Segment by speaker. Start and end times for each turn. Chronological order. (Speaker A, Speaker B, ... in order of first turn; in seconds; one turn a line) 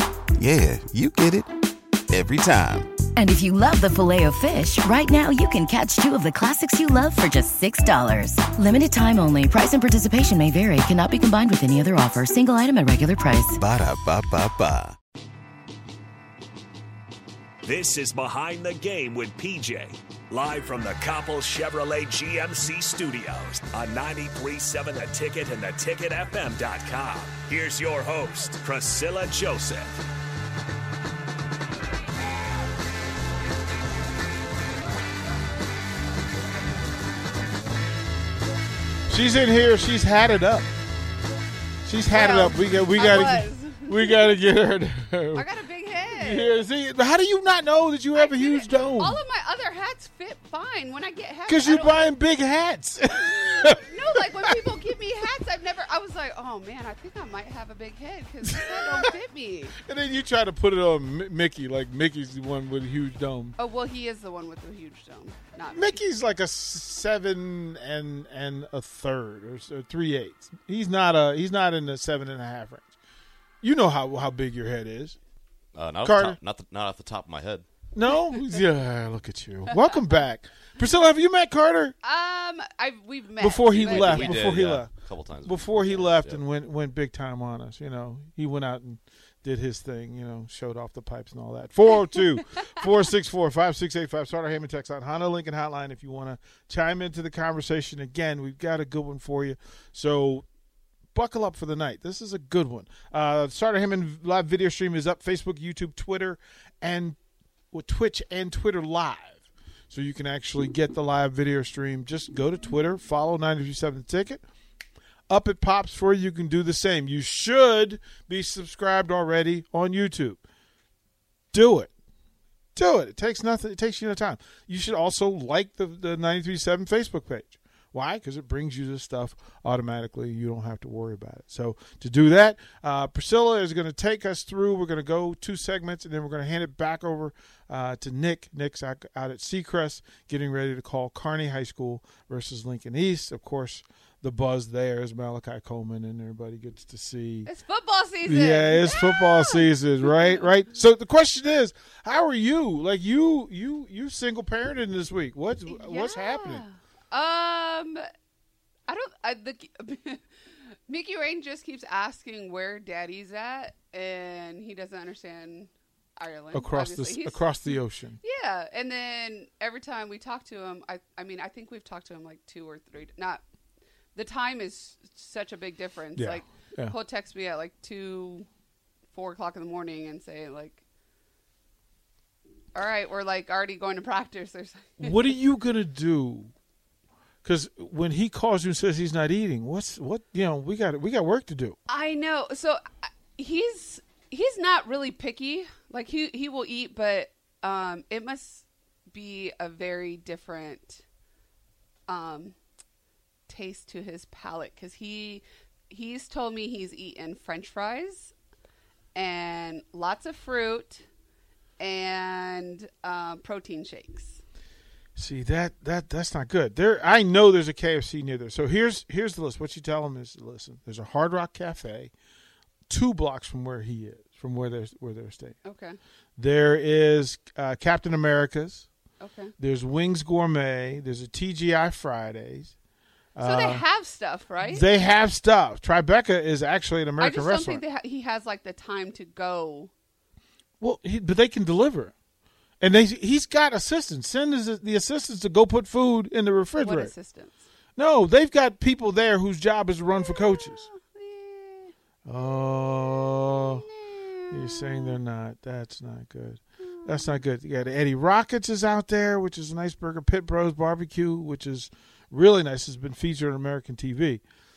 Speaker A: 0.4-1.5
Speaker A: 2.1-2.9
Speaker B: 3.2-13.6
Speaker A: 13.5-15.0
Speaker C: 17.6-30.0
Speaker D: 39.1-40.7
Speaker D: 41.9-45.5
Speaker E: 42.1-44.4
Speaker E: 45.3-46.7
Speaker D: 46.1-49.2
Speaker E: 48.1-52.1
Speaker D: 51.5-54.5
Speaker E: 53.6-59.8
Speaker D: 58.4-59.1
Speaker D: 59.8-63.6
Speaker E: 63.6-66.0
Speaker D: 65.7-72.9
Speaker D: 73.6-75.2
Speaker F: 75.7-77.7
Speaker D: 76.0-76.4
Speaker D: 77.9-82.0
Speaker E: 82.0-84.4
Speaker D: 83.4-100.5
Speaker F: 83.7-86.4
Speaker D: 101.1-107.2
Speaker D: 107.7-114.4
Speaker D: 115.3-120.4
Speaker D: 121.5-121.9
Speaker D: 122.8-147.5
Speaker E: 147.5-150.5
Speaker D: 148.2-156.7
Speaker E: 155.7-158.0
Speaker E: 158.9-173.4
Speaker D: 166.5-168.2
Speaker E: 174.1-178.5
Speaker D: 176.2-177.0
Speaker E: 179.1-180.8
Speaker E: 182.7-185.3
Speaker D: 185.0-186.5
Speaker D: 187.4-191.8
Speaker E: 191.9-201.1
Speaker E: 202.1-202.6
Speaker E: 203.5-208.3
Speaker E: 209.2-211.1
Speaker E: 211.8-214.4
Speaker D: 215.2-222.1
Speaker D: 222.9-225.6
Speaker E: 225.6-226.0
Speaker D: 226.4-228.9
Speaker E: 229.2-229.5
Speaker D: 229.6-232.8
Speaker D: 233.3-233.9
Speaker E: 233.4-234.9
Speaker D: 234.6-237.8
Speaker E: 237.2-239.9
Speaker D: 240.8-242.1
Speaker D: 242.8-247.1
Speaker E: 246.8-247.7
Speaker D: 248.0-250.9
Speaker E: 250.2-251.9
Speaker D: 252.3-253.8
Speaker E: 253.2-255.2
Speaker D: 254.5-264.4
Speaker E: 256.8-257.4